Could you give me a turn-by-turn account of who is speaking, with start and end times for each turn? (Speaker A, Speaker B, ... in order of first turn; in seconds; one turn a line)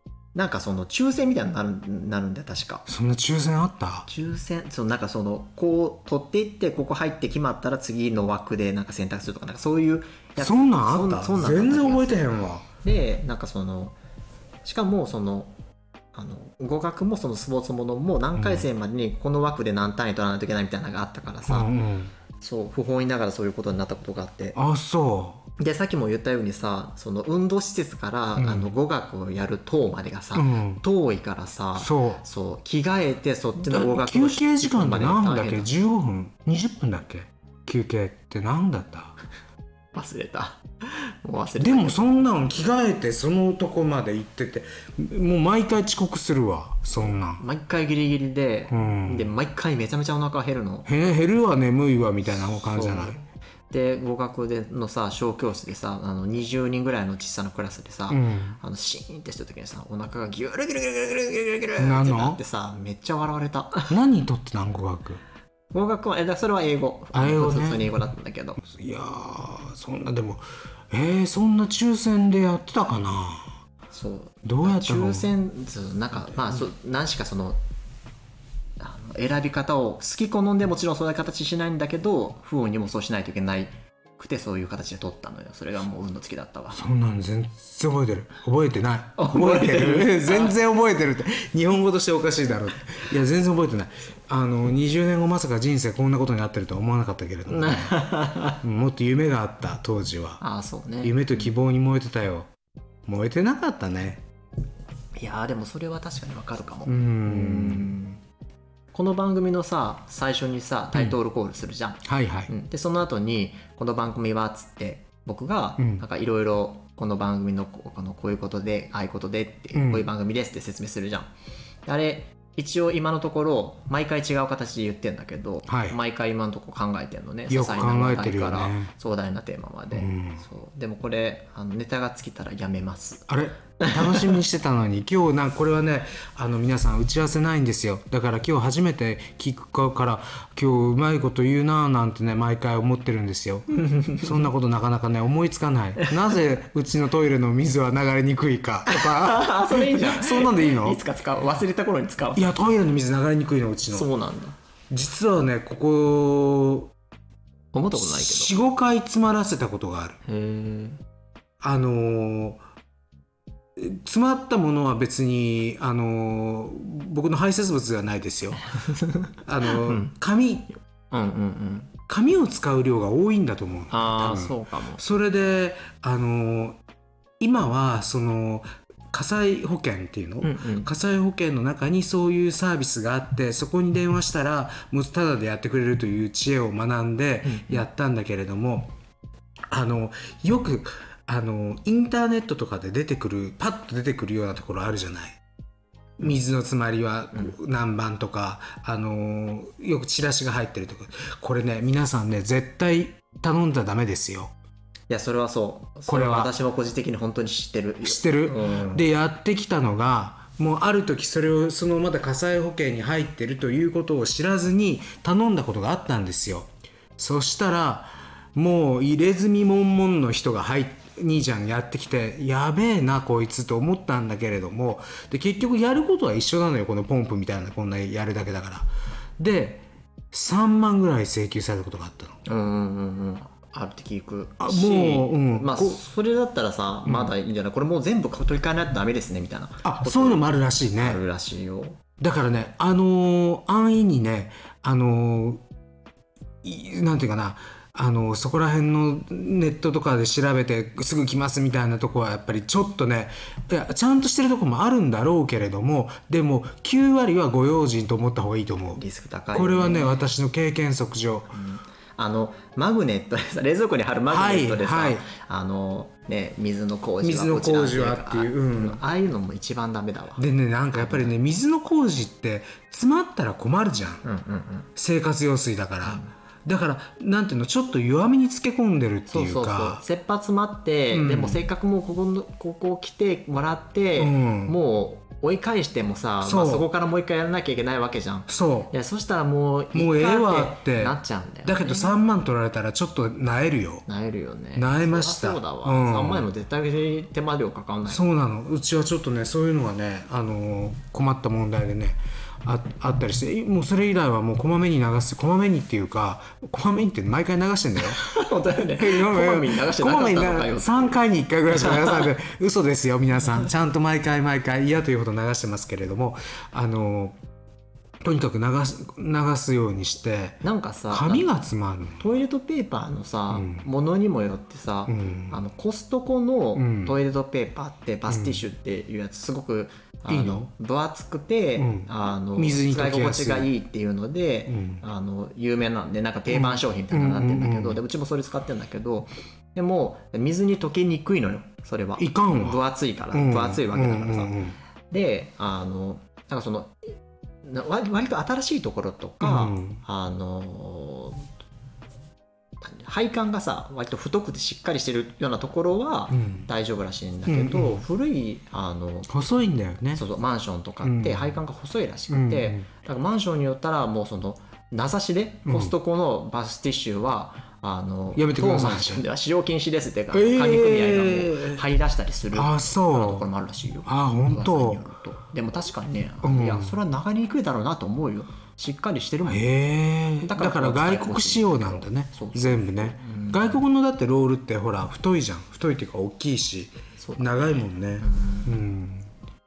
Speaker A: 0.3-2.9
Speaker B: 2.9-4.1
Speaker A: 4.1-12.2
Speaker B: 10.4-12.7
Speaker A: 12.8-14.0
Speaker A: 14.7-15.5
Speaker A: 16.1-21.7
Speaker B: 18.4-18.7
Speaker B: 21.5-22.1
Speaker A: 22.4-24.6
Speaker B: 24.6-25.4
Speaker A: 25.6-35.7
Speaker B: 28.4-28.7
Speaker B: 30.4-30.8
Speaker B: 31.8-32.2
Speaker B: 33.7-39.2
Speaker A: 39.9-42.1
Speaker B: 41.6-47.4
Speaker A: 47.0-50.9
Speaker B: 48.7-49.3
Speaker B: 50.9-53.2
Speaker A: 52.7-64.0
Speaker B: 58.1-58.6
Speaker B: 61.8-62.4
Speaker B: 63.9-65.2
Speaker A: 65.7-68.6
Speaker B: 67.1-67.9
Speaker B: 68.6-73.5
Speaker A: 73.9-77.6
Speaker B: 74.4-75.3
Speaker A: 78.8-86.8
Speaker B: 86.7-98.0
Speaker A: 89.2-90.5
Speaker A: 97.5-98.6
Speaker B: 98.5-100.4
Speaker A: 100.4-101.5
Speaker B: 101.0-102.5
Speaker B: 103.1-104.2
Speaker A: 105.2-108.2
Speaker B: 106.9-107.9
Speaker A: 108.9-121.3
Speaker B: 112.1-112.5
Speaker B: 115.8-116.0
Speaker B: 119.7-120.1
Speaker A: 121.9-133.3
Speaker B: 125.7-126.0
Speaker B: 127.5-128.9
Speaker B: 129.9-130.4
Speaker B: 133.3-151.0
Speaker A: 133.8-134.4
Speaker A: 143.8-144.3
Speaker A: 148.9-152.5
Speaker B: 152.3-154.1
Speaker A: 153.9-154.6
Speaker B: 154.9-156.9
Speaker A: 157.7-158.6
Speaker B: 157.9-160.2
Speaker A: 160.2-161.0
Speaker B: 161.6-162.6
Speaker B: 163.8-168.7
Speaker A: 168.7-170.1
Speaker B: 169.4-170.7
Speaker A: 171.1-171.9
Speaker B: 172.1-176.8
Speaker A: 173.9-175.0
Speaker B: 177.4-188.9
Speaker A: 180.4-180.9
Speaker A: 187.4-187.9
Speaker B: 189.7-195.4
Speaker B: 196.2-204.5
Speaker A: 205.1-209.1
Speaker B: 206.1-206.5
Speaker B: 208.0-228.9
Speaker B: 229.4-232.4
Speaker A: 232.5-242.0
Speaker B: 234.6-236.0
Speaker B: 237.1-237.3
Speaker B: 239.8-241.2
Speaker B: 242.2-245.6
Speaker B: 246.6-259.0
Speaker A: 259.0-260.2
Speaker B: 259.5-261.5
Speaker A: 261.5-271.3
Speaker B: 264.3-265.3
Speaker B: 267.2-269.0
Speaker B: 270.4-274.2
Speaker A: 274.2-274.9
Speaker B: 275.0-280.0
Speaker A: 276.0-276.3
Speaker A: 279.3-292.2
Speaker B: 281.1-281.6
Speaker B: 284.2-284.8
Speaker B: 286.4-286.9
Speaker B: 288.5-288.9
Speaker B: 289.9-294.1
Speaker A: 294.1-298.3
Speaker B: 294.8-296.5
Speaker B: 298.1-308.3
Speaker A: 308.0-311.2
Speaker B: 308.8-317.4
Speaker A: 311.7-312.3
Speaker B: 318.2-322.2
Speaker A: 320.6-321.5
Speaker A: 322.2-347.0
Speaker B: 323.5-323.9
Speaker B: 325.1-325.6
Speaker B: 326.8-327.2
Speaker B: 328.3-328.6
Speaker B: 330.3-330.7
Speaker B: 331.8-333.7
Speaker B: 334.7-335.0
Speaker B: 336.5-338.0
Speaker B: 342.2-342.8
Speaker B: 343.3-344.8
Speaker A: 347.6-351.5
Speaker B: 349.4-350.0
Speaker A: 352.8-359.3
Speaker B: 356.3-356.7
Speaker B: 357.5-358.0
Speaker B: 359.3-360.2
Speaker A: 360.2-379.7
Speaker B: 361.0-361.5
Speaker B: 362.3-362.9
Speaker B: 365.7-365.9
Speaker B: 368.4-369.2
Speaker B: 370.3-371.8
Speaker B: 372.5-373.5
Speaker B: 374.1-375.1
Speaker B: 376.4-376.9
Speaker B: 379.5-389.3
Speaker A: 380.4-383.8
Speaker A: 387.2-388.8